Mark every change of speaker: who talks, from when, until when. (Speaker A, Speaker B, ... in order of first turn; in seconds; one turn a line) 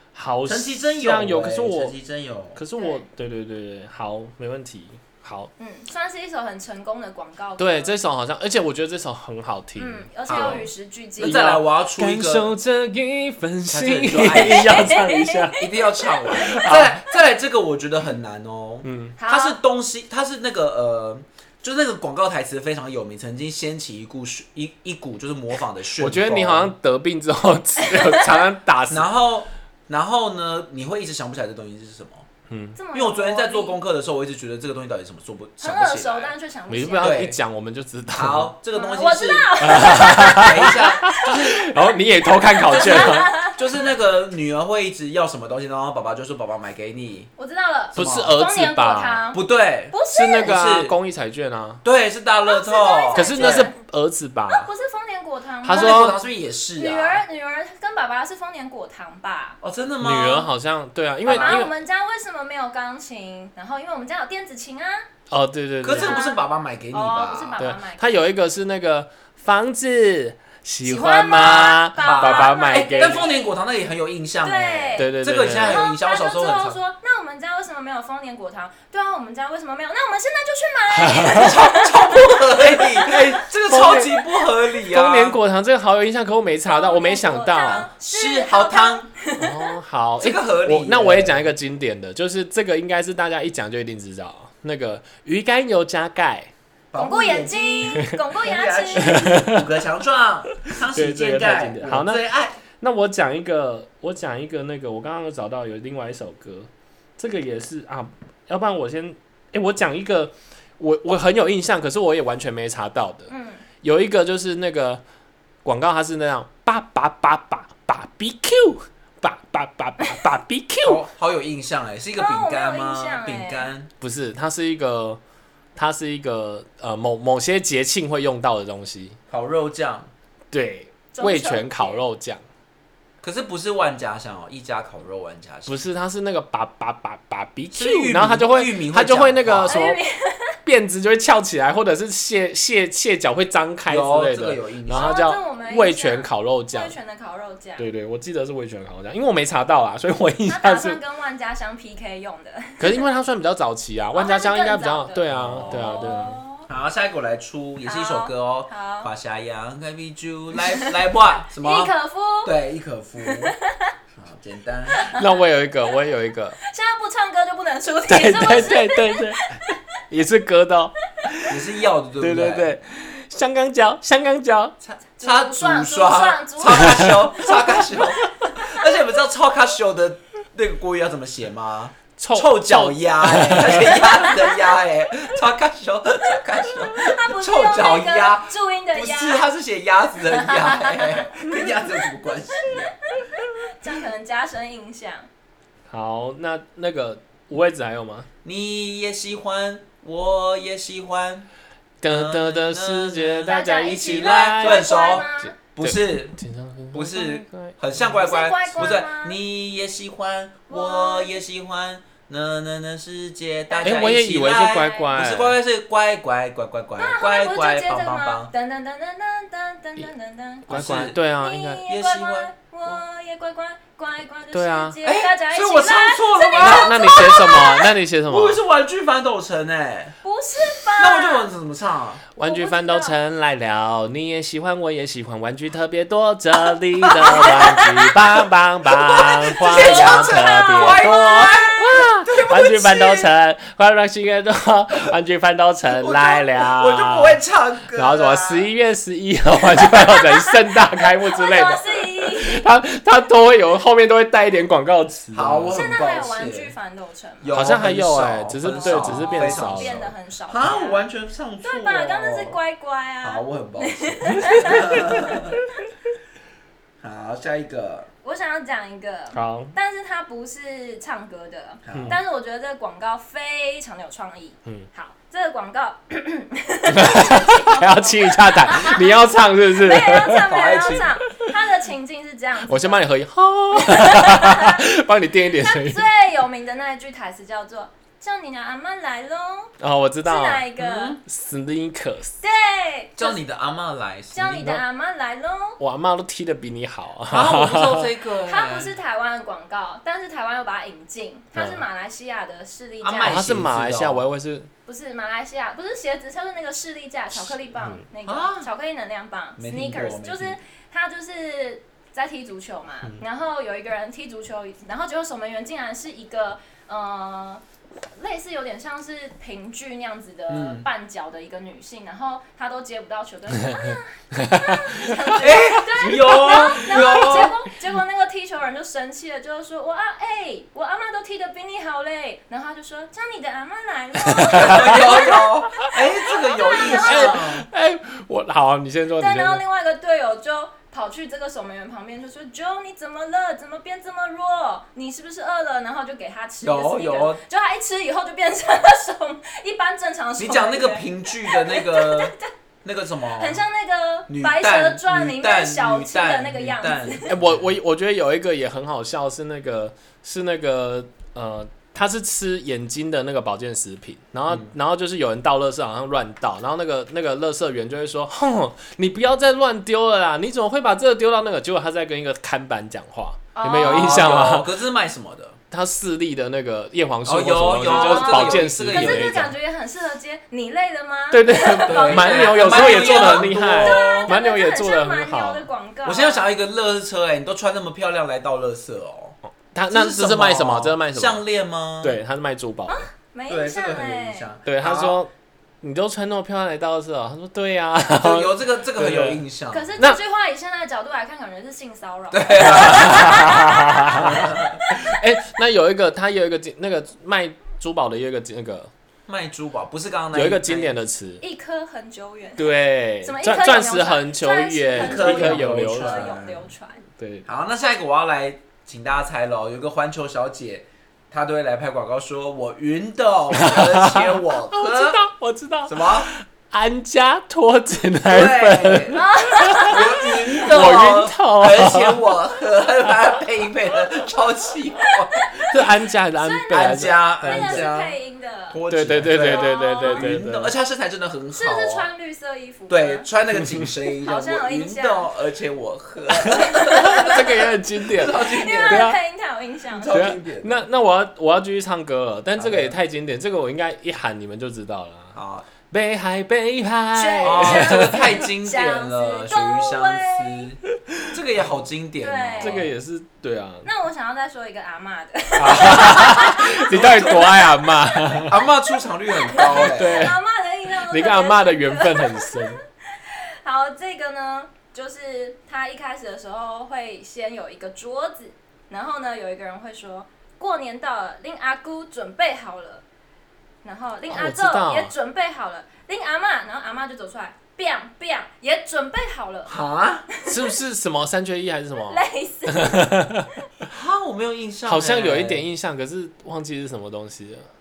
Speaker A: 0.1-1.9
Speaker B: 0.4-2.6
Speaker A: 2.5-5.5
Speaker C: 2.8-3.0
Speaker C: 5.6-8.0
Speaker A: 7.6-10.7
Speaker C: 9.8-11.5
Speaker B: 10.2-12.5
Speaker A: 11.2-15.7
Speaker B: 13.7-26.7
Speaker C: 14.3-15.6
Speaker A: 16.2-17.1
Speaker A: 18.8-19.1
Speaker C: 19.2-19.6
Speaker A: 26.0-29.1
Speaker C: 27.8-28.4
Speaker B: 28.9-32.3
Speaker A: 32.5-32.8
Speaker C: 32.7-33.8
Speaker B: 32.9-36.3
Speaker C: 35.6-37.2
Speaker A: 36.7-38.5
Speaker B: 37.0-37.4
Speaker B: 38.1-41.3
Speaker C: 38.7-41.8
Speaker A: 39.6-43.3
Speaker C: 42.5-43.6
Speaker B: 42.8-47.3
Speaker C: 47.4-50.6
Speaker B: 47.9-48.4
Speaker A: 48.0-49.2
Speaker B: 49.3-50.9
Speaker A: 50.1-51.8
Speaker B: 51.8-53.7
Speaker C: 52.4-53.7
Speaker A: 53.1-54.7
Speaker C: 54.5-56.1
Speaker A: 55.6-56.2
Speaker B: 55.7-57.2
Speaker C: 56.8-59.6
Speaker B: 59.6-60.5
Speaker A: 60.0-61.7
Speaker C: 61.2-65.1
Speaker B: 61.3-61.7
Speaker A: 65.3-66.2
Speaker B: 65.8-67.6
Speaker C: 65.9-68.2
Speaker A: 67.6-73.2
Speaker C: 70.8-73.5
Speaker B: 71.4-76.8
Speaker C: 74.4-83.2
Speaker A: 75.0-75.8
Speaker A: 81.0-81.5
Speaker B: 81.3-85.4
Speaker A: 83.0-84.2
Speaker A: 84.9-87.9
Speaker C: 86.7-89.7
Speaker B: 88.1-89.1
Speaker A: 89.4-96.5
Speaker B: 90.2-91.5
Speaker B: 96.9-102.6
Speaker C: 97.0-99.2
Speaker A: 99.0-99.7
Speaker A: 100.6-102.2
Speaker A: 102.8-113.3
Speaker C: 113.3-113.6
Speaker A: 113.8-115.0
Speaker A: 115.6-121.0
Speaker B: 120.8-123.9
Speaker C: 122.2-123.7
Speaker A: 124.0-125.2
Speaker A: 125.8-129.2
Speaker B: 129.3-130.1
Speaker A: 130.5-132.4
Speaker C: 131.1-132.0
Speaker B: 133.2-135.8
Speaker A: 135.7-140.0
Speaker B: 137.7-139.8
Speaker C: 139.7-140.6
Speaker A: 140.6-146.9
Speaker B: 143.9-145.2
Speaker C: 144.9-147.9
Speaker A: 147.8-151.0
Speaker C: 150.5-153.0
Speaker A: 152.8-156.4
Speaker C: 154.1-156.7
Speaker B: 155.3-161.9
Speaker C: 157.8-159.1
Speaker C: 160.7-162.6
Speaker B: 162.4-163.5
Speaker C: 163.2-163.9
Speaker B: 164.2-165.0
Speaker C: 164.9-166.1
Speaker A: 165.1-166.6
Speaker C: 166.6-169.7
Speaker A: 168.1-169.5
Speaker A: 170.1-171.6
Speaker B: 171.4-172.7
Speaker A: 172.2-174.8
Speaker B: 174.8-192.9
Speaker C: 175.2-177.6
Speaker A: 177.0-178.3
Speaker A: 182.2-184.0
Speaker C: 183.9-184.7
Speaker C: 186.9-189.4
Speaker C: 190.3-191.8
Speaker C: 192.6-195.3
Speaker A: 195.9-198.3
Speaker B: 198.4-201.5
Speaker A: 202.0-207.8
Speaker B: 202.1-206.4
Speaker C: 203.5-205.5
Speaker B: 206.9-218.5
Speaker C: 208.2-209.4
Speaker C: 210.7-211.4
Speaker C: 213.7-215.1
Speaker A: 213.8-215.6
Speaker C: 217.0-227.9
Speaker A: 220.7-221.8
Speaker B: 220.7-221.2
Speaker B: 221.9-223.0
Speaker A: 224.5-225.0
Speaker B: 225.0-230.2
Speaker A: 226.6-228.6
Speaker C: 230.2-231.5
Speaker B: 230.8-232.2
Speaker A: 232.3-247.4
Speaker C: 232.4-233.1
Speaker C: 237.1-238.1
Speaker C: 239.0-241.8
Speaker B: 239.5-243.3
Speaker B: 245.9-248.7
Speaker A: 247.9-255.8
Speaker C: 249.8-252.7
Speaker B: 255.3-256.7
Speaker C: 255.7-257.5
Speaker B: 257.4-262.6
Speaker A: 257.5-260.1
Speaker C: 258.7-261.0
Speaker C: 261.6-265.4
Speaker B: 263.2-265.6
Speaker B: 267.0-268.1
Speaker C: 268.2-283.0
Speaker A: 269.3-269.7
Speaker B: 271.9-272.1
Speaker A: 276.9-280.5
Speaker B: 280.4-281.1
Speaker A: 282.6-286.0
Speaker C: 283.7-284.8
Speaker C: 285.5-291.2
Speaker A: 289.8-290.7
Speaker B: 290.8-291.2
Speaker A: 291.2-292.4
Speaker C: 292.4-293.4
Speaker B: 293.2-294.8
Speaker C: 294.3-295.8
Speaker A: 295.8-298.1
Speaker B: 297.3-298.9
Speaker C: 298.4-303.4
Speaker A: 301.6-301.8
Speaker B: 303.0-304.2
Speaker A: 303.2-304.7
Speaker C: 304.9-317.6
Speaker A: 307.8-308.0
Speaker B: 308.2-308.7
Speaker B: 309.6-310.6
Speaker C: 318.1-337.4
Speaker B: 320.5-320.9
Speaker A: 323.6-325.4
Speaker B: 325.4-327.5
Speaker A: 326.0-327.5
Speaker A: 334.2-335.4
Speaker B: 334.4-337.6
Speaker A: 336.8-339.6
Speaker C: 339.2-352.5
Speaker B: 346.6-347.4
Speaker B: 350.4-353.6
Speaker C: 353.3-357.3
Speaker B: 354.3-357.6
Speaker A: 357.3-374.7
Speaker C: 373.5-374.5
Speaker B: 373.8-375.6
Speaker A: 375.7-379.5
Speaker B: 377.2-379.4
Speaker C: 377.8-386.5
Speaker A: 381.3-385.7
Speaker B: 381.8-384.3
Speaker B: 386.0-389.4
Speaker A: 389.7-391.4
Speaker B: 389.9-392.2
Speaker A: 392.0-393.1
Speaker C: 392.9-394.5
Speaker B: 393.5-395.2
Speaker A: 394.6-399.4
Speaker B: 398.1-399.9
Speaker C: 399.7-405.0
Speaker B: 402.3-403.6
Speaker A: 402.6-408.9
Speaker B: 404.1-404.8
Speaker B: 409.3-410.9
Speaker A: 410.3-411.4
Speaker C: 411.4-417.0
Speaker A: 412.6-416.3
Speaker B: 414.9-416.7
Speaker A: 417.2-417.4
Speaker B: 417.4-425.2
Speaker A: 423.5-432.2
Speaker B: 425.9-426.3
Speaker B: 428.3-429.2
Speaker C: 429.1-430.9
Speaker B: 429.8-435.8
Speaker C: 435.0-435.8
Speaker A: 435.7-437.9
Speaker C: 436.3-438.8
Speaker B: 436.7-438.2
Speaker B: 438.7-442.1
Speaker A: 438.9-440.7
Speaker C: 439.4-440.3
Speaker C: 441.5-443.2
Speaker B: 442.9-449.1
Speaker C: 444.2-445.3
Speaker C: 446.4-450.3
Speaker A: 446.5-449.2
Speaker B: 449.9-450.9
Speaker A: 450.1-455.4
Speaker B: 452.6-452.9
Speaker B: 455.3-455.7
Speaker A: 455.9-458.4
Speaker C: 457.1-460.7
Speaker B: 457.4-462.9
Speaker C: 462.2-462.9
Speaker A: 462.6-463.9
Speaker C: 463.8-483.0
Speaker A: 465.6-468.6
Speaker B: 466.8-467.6
Speaker B: 468.4-470.4
Speaker A: 469.6-470.4
Speaker A: 471.0-472.8
Speaker C: 483.8-489.8
Speaker A: 484.3-485.1
Speaker B: 489.7-490.3
Speaker C: 490.3-490.7
Speaker A: 490.4-493.5
Speaker C: 492.1-493.3
Speaker B: 493.9-495.6
Speaker A: 494.8-497.7